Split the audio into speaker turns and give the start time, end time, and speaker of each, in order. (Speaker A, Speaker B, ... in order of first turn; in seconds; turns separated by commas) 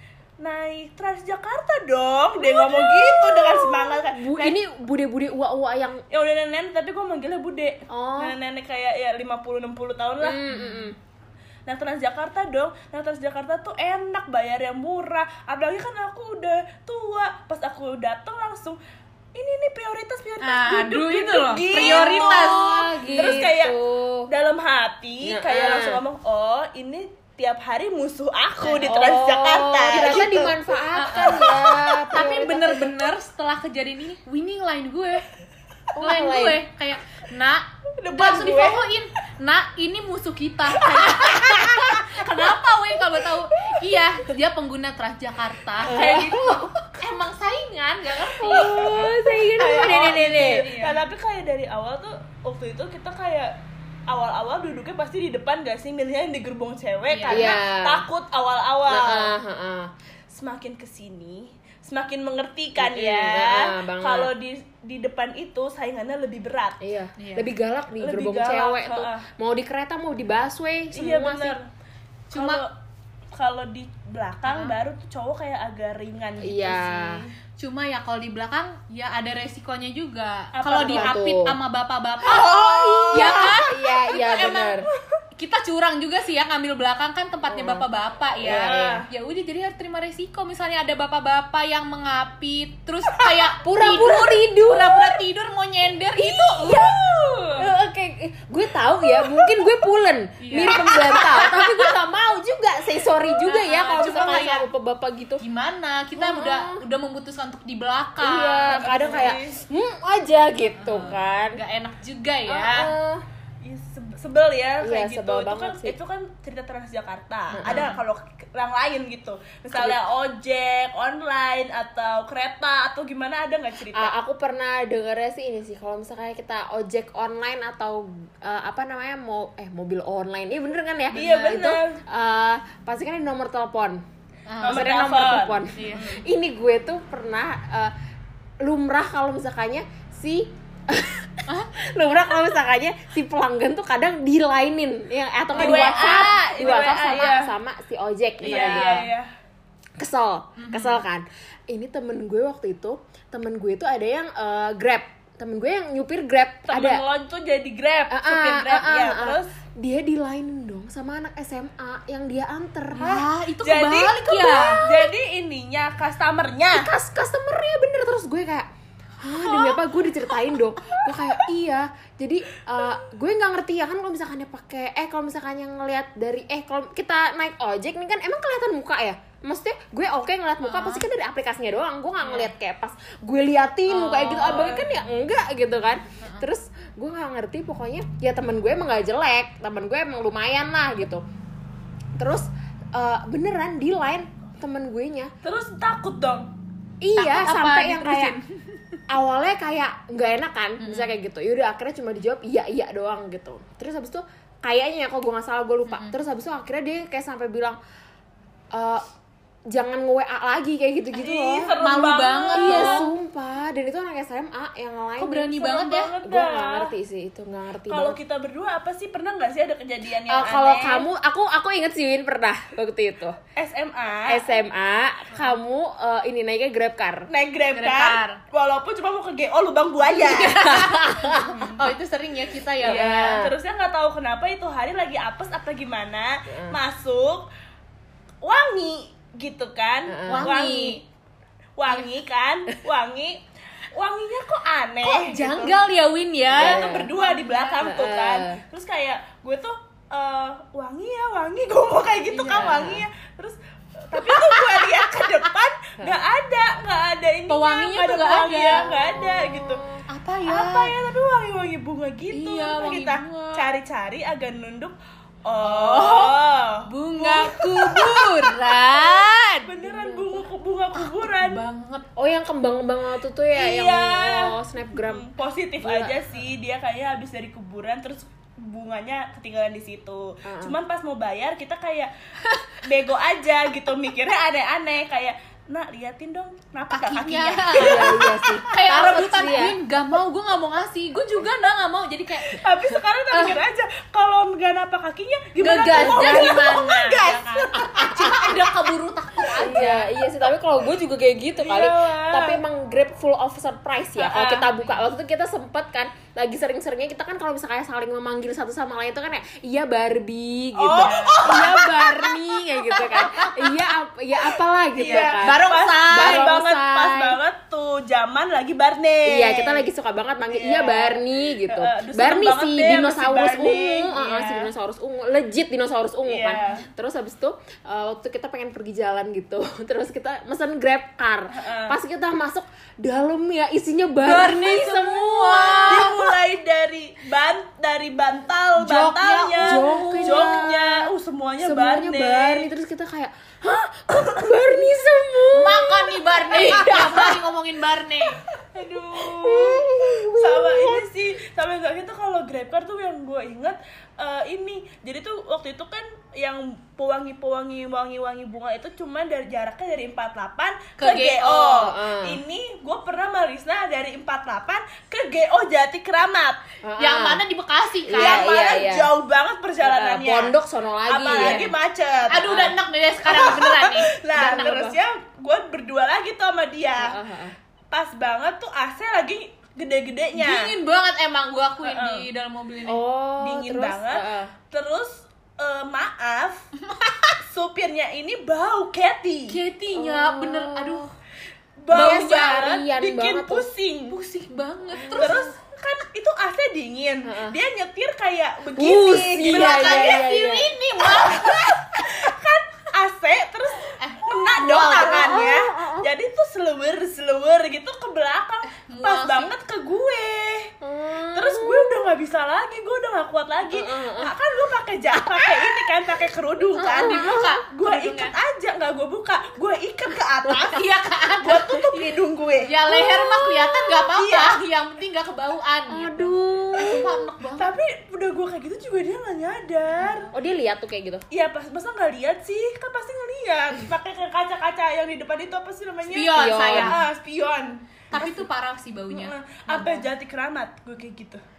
Speaker A: 0.4-4.6, Speaker B: 2.4-6.0, Speaker A: 6.1-10.4, Speaker B: 7.9-8.4, Speaker B: 10.2-10.9, Speaker C: 10.5-10.9, Speaker A: 11.7-18.8, Speaker A: 19.3-30.6, Speaker C: 20.4-23.4, Speaker B: 21.5-24.3, Speaker B: 25.2-26.0, Speaker C: 28.6-29.0, Speaker B: 28.9-33.0, Speaker C: 30.9-31.5, Speaker A: 31.2-31.9, Speaker C: 32.1-35.2, Speaker B: 35.9-36.6, Speaker C: 36.0-48.9, Speaker A: 38.0-38.8, Speaker A: 40.7-42.5, Speaker B: 41.4-41.8, Speaker B: 45.8-46.7, Speaker A: 45.9-46.3, Speaker B: 48.4-50.7, Speaker A: 48.5-53.5, Speaker C: 50.4-51.0, Speaker A: 54.1-59.4, Speaker C: 57.1-57.5, Speaker B: 57.3-58.0, Speaker B: 58.9-59.9, Speaker A: 60.3-66.8, Speaker B: 62.8-64.3, Speaker B: 66.8-71.6, Speaker C: 67.2-67.5, Speaker A: 68.0-69.2, Speaker A: 70.9-71.7, Speaker C: 72.3-72.6, Speaker A: 72.3-72.7, Speaker A: 73.3-77.3, Speaker C: 74.5-74.8, Speaker B: 76.4-77.2, Speaker C: 77.6-84.8, Speaker A: 80.5-81.2, Speaker B: 80.9-81.6, Speaker A: 82.2-83.6, Speaker B: 82.3-84.9, Speaker C: 85.4-96.8, Speaker B: 87.5-87.8, Speaker B: 88.4-89.0, Speaker A: 88.5-89.0, Speaker B: 93.6-95.2, Speaker B: 96.2-96.9, Speaker A: 96.6-97.7, Speaker B: 97.6-105.4, Speaker C: 100.4-101.8, Speaker C: 103.4-104.7, Speaker C: 105.4-109.2, Speaker B: 106.2-106.8, Speaker B: 108.2-111.6, Speaker A: 108.7-109.6, Speaker C: 110.8-112.9, Speaker B: 112.5-113.2, Speaker A: 113.6-124.1, Speaker B: 114.8-116.0, Speaker B: 117.5-117.9, Speaker C: 117.6-118.0, Speaker B: 119.7-120.0, Speaker B: 123.9-134.0, Speaker C: 131.1-131.5, Speaker A: 131.1-132.0, Speaker C: 134.5-134.8, Speaker A: 134.6-136.2, Speaker B: 134.6-137.9, Speaker C: 135.7-136.0, Speaker B: 138.6-149.1, Speaker A: 145.5-147.5, Speaker C: 145.6-146.3, Speaker A: 148.4-149.3, Speaker C: 148.6-149.0, Speaker B: 150.0-157.0, Speaker C: 150.6-151.0, Speaker A: 156.7-159.5, Speaker B: 158.1-163.1, Speaker C: 162.9-164.8, Speaker A: 163.0-166.9, Speaker B: 164.6-165.1, Speaker B: 166.7-168.7, Speaker B: 169.2-191.2, Speaker A: 169.5-169.8, Speaker A: 170.9-171.4, Speaker C: 180.6-181.0, Speaker C: 182.2-182.5, Speaker C: 183.9-184.7, Speaker A: 184.3-184.8, Speaker C: 186.2-186.5, Speaker B: 192.2-195.3, Speaker A: 195.4-196.5, Speaker B: 197.0-198.4, Speaker C: 197.2-198.6, Speaker B: 199.1-207.8, Speaker C: 200.8-201.1, Speaker C: 205.9-206.2, Speaker B: 208.7-209.0, Speaker B: 209.7-211.7, Speaker A: 211.1-213.1, Speaker C: 211.8-213.1, Speaker B: 212.6-218.2, Speaker C: 215.2-216.1, Speaker A: 215.6-216.9, Speaker A: 217.9-221.1, Speaker B: 220.3-223.4, Speaker A: 223.6-224.4, Speaker B: 224.3-227.3, Speaker A: 227.3-231.8, Speaker C: 227.7-228.4, Speaker C: 230.1-233.4, Speaker B: 230.6-231.6, Speaker B: 232.8-233.5, Speaker A: 232.8-237.4, Speaker B: 236.5-236.8, Speaker A: 238.4-241.0, Speaker B: 240.1-240.5, Speaker C: 240.3-241.0, Speaker A: 241.8-243.4, Speaker A: 243.9-245.8, Speaker C: 245.0-247.9, Speaker B: 246.5-247.1, Speaker A: 246.5-253.6, Speaker B: 247.8-248.6, Speaker C: 252.3-252.8, Speaker B: 252.5-253.0, Speaker A: 254.1-259.8, Speaker C: 254.2-255.0, Speaker C: 257.5-258.9, Speaker B: 258.8-260.0, Speaker C: 260.1-260.9, Speaker A: 260.5-264.9, Speaker C: 262.3-263.7, Speaker A: 265.4-268.5, Speaker C: 265.6-269.7, Speaker A: 269.6-271.6, Speaker B: 269.8-270.4, Speaker C: 270.9-272.0, Speaker B: 272.1-275.2, Speaker A: 273.5-282.1, Speaker B: 275.8-276.1, Speaker B: 280.4-280.8, Speaker A: 282.8-289.2, Speaker C: 286.9-292.6, Speaker B: 287.7-289.8, Speaker A: 292.5-298.7, Speaker C: 295.6-300.1, Speaker B: 295.9-296.6, Speaker B: 299.6-317.4, Speaker A: 301.6-302.6, Speaker A: 304.2-304.7, Speaker C: 304.3-304.9, Speaker A: 310.8-312.3, Speaker C: 310.9-311.5, Speaker C: 313.0-313.7, Speaker A: 314.9-319.9, Speaker C: 315.0-316.5, Speaker B: 319.2-336.2, Speaker A: 320.5-324.7, Speaker A: 326.2-326.8, Speaker A: 331.5-332.0, Speaker C: 334.2-336.1, Speaker A: 335.9-342.7, Speaker C: 338.8-340.6, Speaker B: 339.6-341.1, Speaker B: 341.6-347.4, Speaker C: 345.5-348.4, Speaker A: 348.7-366.6, Speaker B: 349.2-351.1, Speaker C: 361.0-361.7, Speaker B: 361.5-362.4, Speaker B: 366.8-367.4, Speaker C: 367.0-368.4, Speaker B: 368.0-369.1, Speaker A: 368.1-370.5, Speaker B: 369.8-371.7, Speaker A: 371.1-372.7, Speaker C: 372.3-374.1, Speaker A: 373.2-377.2, Speaker B: 374.3-375.0, Speaker B: 377.0-377.6, Speaker A: 377.9-380.7, Speaker C: 380.4-383.0, Speaker A: 381.8-382.3, Speaker B: 382.9-384.5, Speaker A: 383.4-386.7, Speaker C: 386.9-387.3, Speaker A: 387.4-389.6, Speaker C: 389.5-391.1, Speaker B: 389.9-391.0, Speaker A: 391.8-394.2, Speaker C: 391.9-392.7, Speaker B: 391.9-393.7, Speaker C: 394.1-395.5, Speaker B: 394.9-395.4, Speaker A: 395.1-400.3, Speaker B: 397.2-397.6, Speaker B: 398.8-402.3, Speaker C: 399.4-401.6, Speaker A: 401.1-410.7, Speaker C: 404.0-405.4, Speaker B: 405.0-406.1, Speaker C: 408.9-409.5, Speaker B: 410.8-412.1, Speaker A: 411.3-420.9, Speaker B: 413.7-414.3, Speaker B: 415.2-415.9, Speaker B: 416.8-417.6, Speaker C: 416.9-418.3, Speaker C: 420.6-422.1, Speaker A: 421.4-422.7, Speaker C: 422.6-427.7, Speaker B: 422.8-424.1, Speaker A: 424.1-424.6, Speaker B: 425.9-427.1, Speaker A: 427.6-430.3, Speaker B: 430.3-431.2, Speaker A: 431.3-437.8, Speaker C: 436.1-436.9, Speaker B: 436.3-437.0, Speaker C: 438.1-440.1, Speaker B: 438.1-438.4, Speaker A: 439.1-441.4